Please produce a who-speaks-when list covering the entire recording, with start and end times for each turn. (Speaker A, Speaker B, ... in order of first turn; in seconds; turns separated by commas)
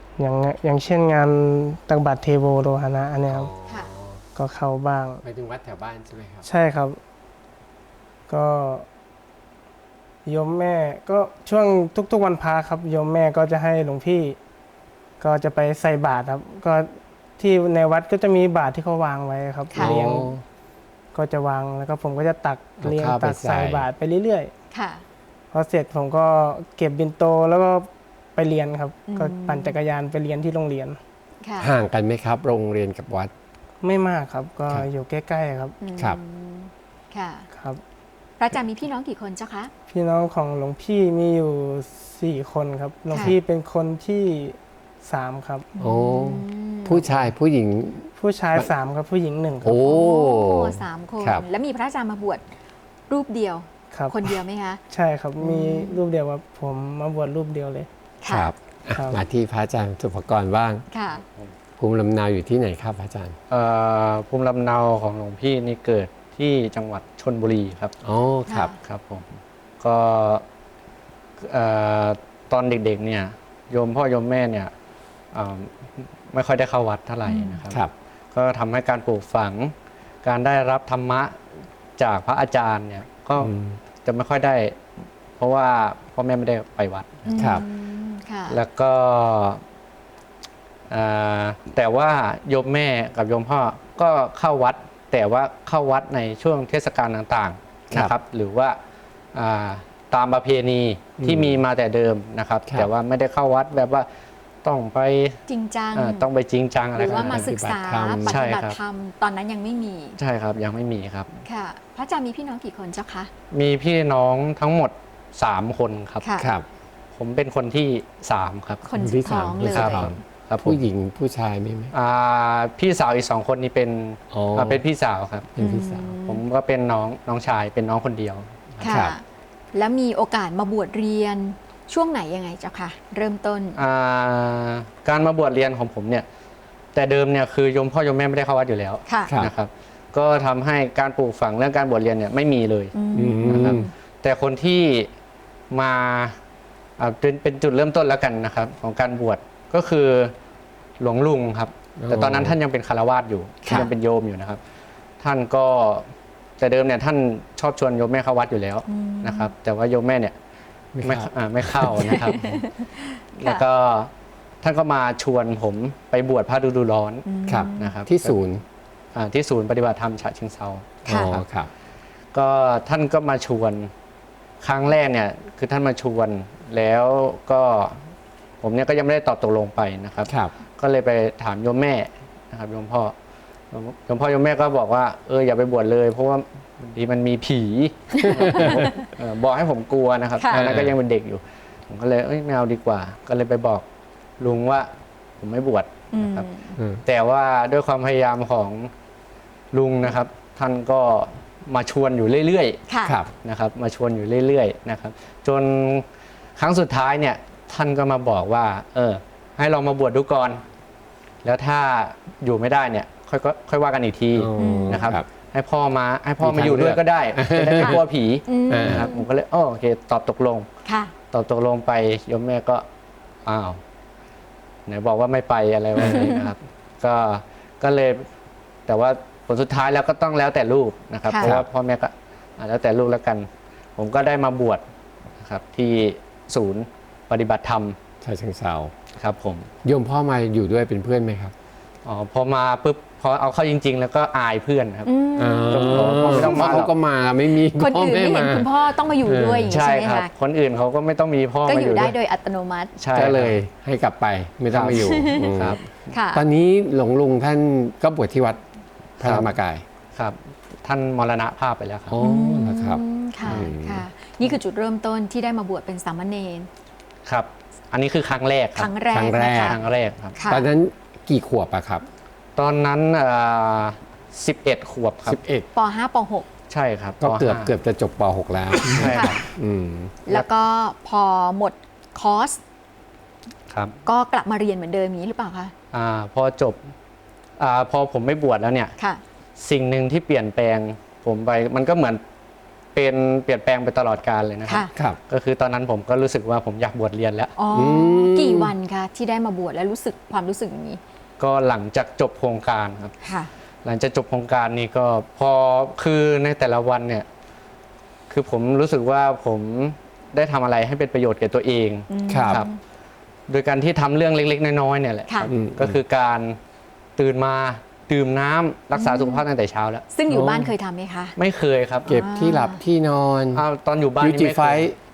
Speaker A: 0.2-3.5, Speaker B: 3.3-4.2, Speaker A: 4.3-5.2, Speaker B: 5.2-6.5, Speaker A: 6.4-7.0, Speaker A: 8.3-8.9, Speaker A: 10.2-14.4, Speaker A: 15.2-20.3, Speaker C: 19.7-20.0, Speaker B: 19.8-20.4, Speaker A: 21.1-24.5, Speaker B: 22.8-23.9, Speaker C: 24.7-25.0, Speaker A: 25.5-31.0, Speaker C: 29.1-29.8, Speaker C: 31.4-31.7, Speaker B: 31.6-33.3, Speaker A: 33.8-35.8, Speaker C: 35.8-37.5, Speaker A: 37.5-37.8, Speaker C: 38.4-39.7, Speaker A: 39.9-45.7, Speaker C: 43.1-43.4, Speaker C: 45.7-47.1, Speaker B: 45.8-48.7, Speaker A: 48.2-50.0, Speaker B: 49.6-51.4, Speaker C: 49.8-52.4, Speaker C: 53.1-54.8, Speaker A: 53.9-54.4, Speaker A: 54.9-57.9, Speaker C: 55.4-56.0, Speaker C: 58.2-58.5, Speaker B: 58.3-60.8, Speaker A: 58.9-59.2, Speaker C: 60.9-61.2, Speaker D: 61.2-61.5, Speaker B: 61.8-63.4, Speaker D: 63.5-67.9, Speaker B: 68.0-68.7, Speaker C: 68.5-68.7, Speaker D: 68.8-70.4, Speaker D: 71.4-74.7, Speaker D: 75.3-81.4, Speaker C: 77.2-77.6, Speaker D: 82.0-83.5, Speaker B: 83.4-83.8, Speaker D: 84.0-84.8, Speaker D: 85.4-87.5, Speaker C: 87.3-88.6, Speaker B: 87.4-87.6, Speaker D: 88.5-89.6, Speaker D: 90.9-98.8, Speaker D: 99.3-104.1, Speaker B: 101.2-101.6, Speaker D: 104.6-105.4, Speaker C: 105.5-106.2, Speaker D: 105.9-107.5, Speaker B: 106.9-108.5, Speaker C: 107.0-110.2, Speaker D: 108.2-108.8, Speaker D: 110.2-111.4, Speaker C: 111.4-113.3, Speaker D: 113.5-116.2, Speaker C: 116.2-116.5, Speaker B: 116.4-116.6, Speaker D: 117.1-118.9, Speaker C: 118.8-120.1, Speaker B: 118.9-121.9, Speaker D: 119.6-120.8, Speaker D: 121.9-125.5, Speaker B: 124.3-124.8, Speaker B: 125.5-126.1, Speaker C: 125.6-126.4, Speaker D: 126.2-129.0, Speaker C: 128.8-133.8, Speaker B: 128.8-129.1, Speaker D: 133.8-136.2, Speaker D: 136.9-145.1, Speaker C: 139.1-139.3, Speaker B: 139.3-139.5, Speaker C: 142.9-143.9, Speaker B: 143.1-143.9, Speaker D: 145.7-146.4, Speaker D: 147.0-150.3, Speaker D: 151.0-154.6, Speaker B: 152.0-152.6, Speaker D: 155.2-160.3, Speaker C: 158.9-159.5, Speaker B: 160.9-162.0, Speaker D: 161.0-162.6, Speaker C: 162.0-163.6, Speaker D: 163.3-164.1, Speaker D: 164.6-168.3, Speaker C: 167.2-167.9, Speaker B: 167.4-168.6, Speaker D: 169.1-171.4, Speaker B: 171.0-171.7, Speaker C: 171.1-171.3, Speaker D: 172.3-173.9, Speaker D: 174.6-178.1, Speaker D: 178.6-183.1, Speaker B: 180.3-180.5, Speaker D: 183.7-193.8, Speaker C: 188.1-189.0, Speaker B: 188.2-188.9, Speaker C: 190.4-190.6, Speaker B: 190.5-190.9, Speaker D: 194.4-196.5, Speaker C: 196.1-196.8, Speaker D: 197.0-198.9, Speaker D: 199.7-202.8, Speaker C: 202.9-203.2, Speaker B: 203.0-203.3, Speaker D: 203.4-206.0, Speaker D: 206.6-210.6, Speaker D: 211.4-220.7, Speaker B: 214.3-215.2, Speaker C: 214.6-215.1, Speaker B: 216.4-218.0, Speaker C: 218.5-219.2, Speaker B: 218.7-219.1, Speaker C: 220.8-221.1, Speaker D: 221.3-222.8, Speaker D: 223.4-223.8, Speaker D: 224.9-228.3, Speaker B: 226.0-226.3, Speaker C: 226.0-226.4, Speaker D: 228.9-234.8, Speaker C: 231.3-231.5, Speaker B: 231.4-231.7, Speaker D: 235.4-238.0, Speaker B: 238.2-238.9, Speaker D: 239.2-239.7, Speaker B: 239.8-241.5, Speaker D: 242.0-245.1, Speaker C: 245.1-246.8, Speaker B: 245.4-248.7, Speaker D: 245.7-246.9, Speaker C: 247.7-250.3, Speaker B: 249.2-249.8, Speaker D: 249.7-252.1, Speaker C: 251.7-252.9, Speaker D: 253.0-253.6, Speaker B: 253.1-255.8, Speaker D: 254.7-255.9, Speaker C: 254.9-255.6, Speaker C: 256.1-256.4, Speaker B: 256.3-258.6, Speaker B: 259.2-259.8, Speaker D: 259.2-259.5, Speaker D: 260.1-262.1, Speaker B: 262.1-264.1, Speaker C: 262.2-266.7, Speaker D: 263.4-263.7, Speaker D: 267.2-268.9, Speaker C: 268.8-269.8, Speaker B: 269.1-269.8, Speaker D: 269.5-270.4, Speaker C: 270.4-270.7, Speaker B: 270.5-272.1, Speaker D: 272.6-275.4, Speaker B: 275.2-275.7, Speaker C: 275.7-276.5, Speaker D: 276.7-277.7, Speaker B: 277.2-280.1, Speaker C: 278.8-279.4, Speaker D: 278.8-279.5, Speaker C: 280.2-282.6, Speaker D: 283.7-284.0, Speaker C: 284.0-285.7, Speaker D: 285.9-286.9, Speaker D: 287.6-288.9, Speaker D: 289.6-292.2, Speaker D: 292.9-297.5, Speaker C: 297.6-301.0, Speaker B: 297.7-298.7, Speaker D: 301.4-303.1, Speaker C: 303.2-303.5, Speaker D: 303.8-307.2, Speaker D: 308.3-312.7, Speaker C: 312.1-312.8, Speaker B: 312.3-312.6, Speaker D: 313.5-316.6, Speaker B: 315.5-316.0, Speaker D: 317.2-320.1, Speaker C: 318.9-319.4, Speaker C: 320.1-321.3, Speaker B: 320.3-320.7, Speaker D: 321.4-322.1, Speaker C: 322.1-322.8, Speaker B: 322.1-323.6, Speaker D: 323.5-324.9, Speaker B: 324.2-324.9